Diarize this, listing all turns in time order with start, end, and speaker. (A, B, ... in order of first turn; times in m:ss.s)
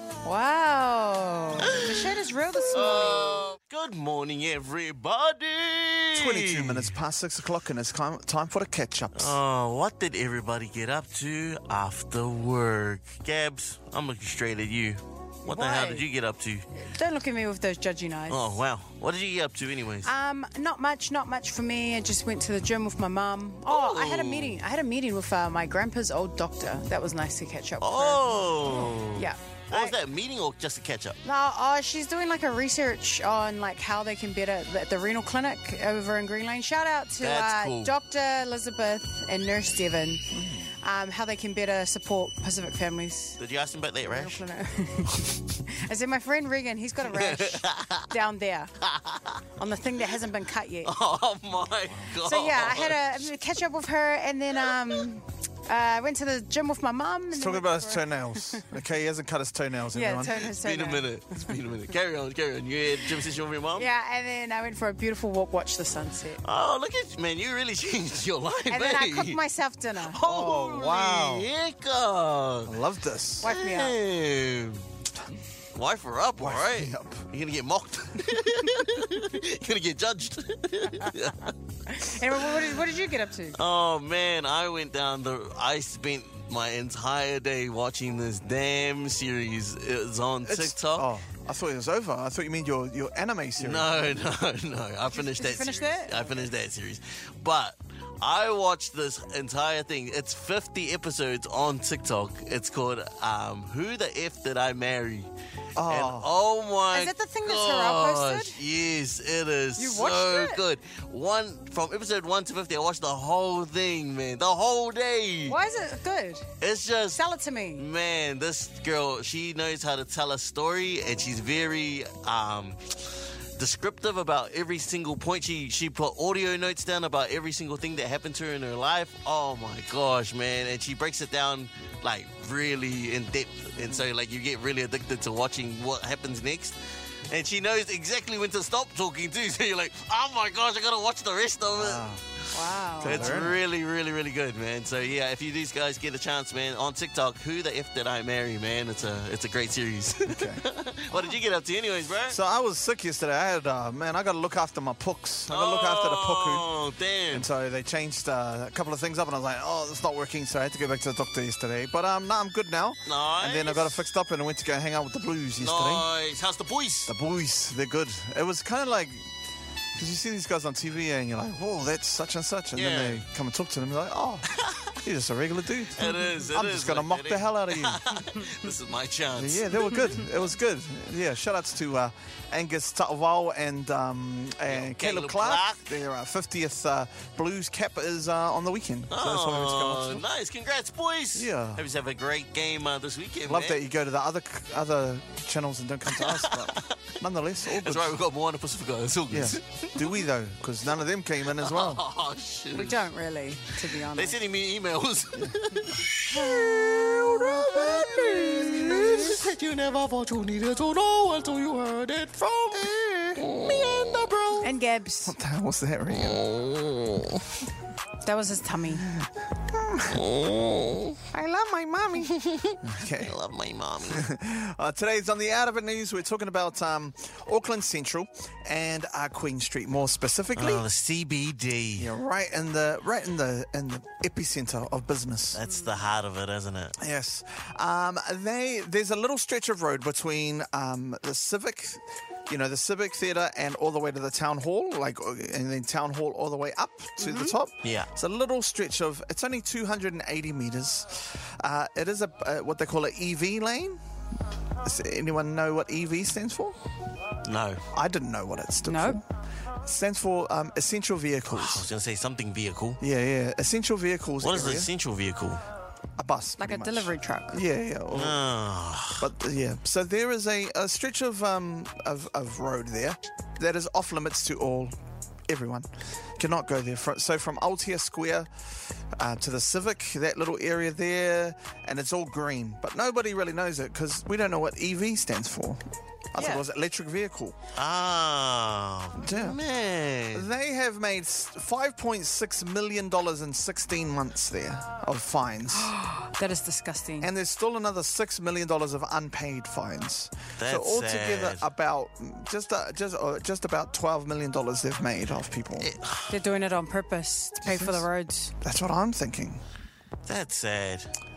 0:00.2-0:03.4 A
0:01.6-0:06.9 B
0:06.1-0:09.4 C
0:09.2-0:16.7 B
0:15.4-0:16.1 A
0:16.8-0:18.6 A
0:18.3-0:20.1 B
0:20.0-0:30.0 A
0:23.7-0:24.6 B
0:27.8-0:31.2 B
0:31.2-0:40.3 A
0:37.2-0:37.9 B
0:40.3-0:40.7 C
0:40.8-0:43.4 A
0:43.4-0:44.4 B
0:44.1-0:48.7 A
0:47.1-0:48.1 B
0:48.8-0:49.4 B
0:49.6-0:50.9 A
0:50.8-0:53.3 B
0:52.2-0:58.6 A
0:57.3-1:00.5 C
0:59.9-1:01.4 A
1:00.5-1:03.9 B
1:03.8-1:06.4 A
1:06.4-1:09.4 B
1:08.7-1:10.2 A
1:10.0-1:12.8 B
1:10.2-1:11.5 C
1:12.6-1:13.5 C
1:13.4-1:14.0 A
1:13.4-1:14.8 B
1:15.8-1:21.6 B
1:16.4-1:17.3 C
1:21.9-1:23.6 A
1:23.6-1:31.1 B
1:30.4-1:34.0 C
1:33.6-1:45.3 B
1:35.1-1:36.4 A
1:45.8-1:46.3 C
1:45.9-1:55.6 B
1:46.9-1:48.6 A
1:49.8-1:50.6 A
1:55.5-1:56.5 A
1:56.6-1:57.2 B
1:57.1-1:57.8 A
1:57.8-2:16.8 B
2:17.3-2:32.4 B
2:21.7-2:22.2 C
2:22.5-2:23.4 A
2:23.0-2:23.6 C
2:30.3-2:31.4 C
2:32.3-2:36.7 C
2:35.5-2:37.5 B
2:37.3-2:46.1 C
2:43.1-2:44.0 B
2:45.6-2:47.1 B
2:47.1-2:49.3 C
2:50.0-2:58.0 C
2:52.8-2:53.2 B
2:54.6-2:55.0 B
2:56.0-3:00.3 B
2:59.4-3:10.2 C
3:04.7-3:05.8 B
3:09.1-3:13.8 B
3:11.3-3:11.9 C
3:13.4-3:18.2 C
3:16.1-3:17.0 B
3:17.7-3:20.2 B
3:19.3-3:22.0 C
3:21.5-3:23.1 B
3:22.8-3:24.4 A
3:24.0-3:34.7 B
3:26.4-3:29.1 A
3:28.3-3:29.4 C
3:34.6-3:35.4 A
3:35.2-3:36.4 C
3:36.1-3:37.4 B
3:38.2-3:39.1 A
3:39.0-3:40.2 C
3:40.1-3:41.2 B
3:41.3-3:43.4 C
3:42.2-3:44.3 B
3:44.1-3:50.8 C
3:50.6-3:52.1 B
3:52.0-3:55.6 C
3:55.5-3:57.0 B
3:57.0-4:14.0 C
4:07.2-4:07.6 A
4:07.8-4:08.1 B
4:14.8-4:16.8 C
4:17.4-4:17.8 B
4:17.9-4:19.2 C
4:18.8-4:19.2 A
4:19.8-4:21.9 C
4:21.5-4:23.0 B
4:23.0-4:24.9 C
4:24.4-4:25.6 B
4:26.2-4:28.4 C
4:26.6-4:27.6 A
4:28.1-4:29.3 B
4:29.2-4:34.9 C
4:35.5-4:38.5 C
4:39.2-4:45.8 C
4:46.3-4:47.6 C
4:46.4-4:46.6 A
4:47.7-4:50.5 B
4:49.2-4:49.6 C
4:50.3-4:55.9 C
4:55.7-4:57.3 A
4:57.2-5:05.9 C
5:00.6-5:01.7 B
5:05.8-5:06.4 B
5:06.3-5:08.5 A
5:07.6-5:08.1 C
5:08.6-5:09.6 C
5:10.3-5:11.1 B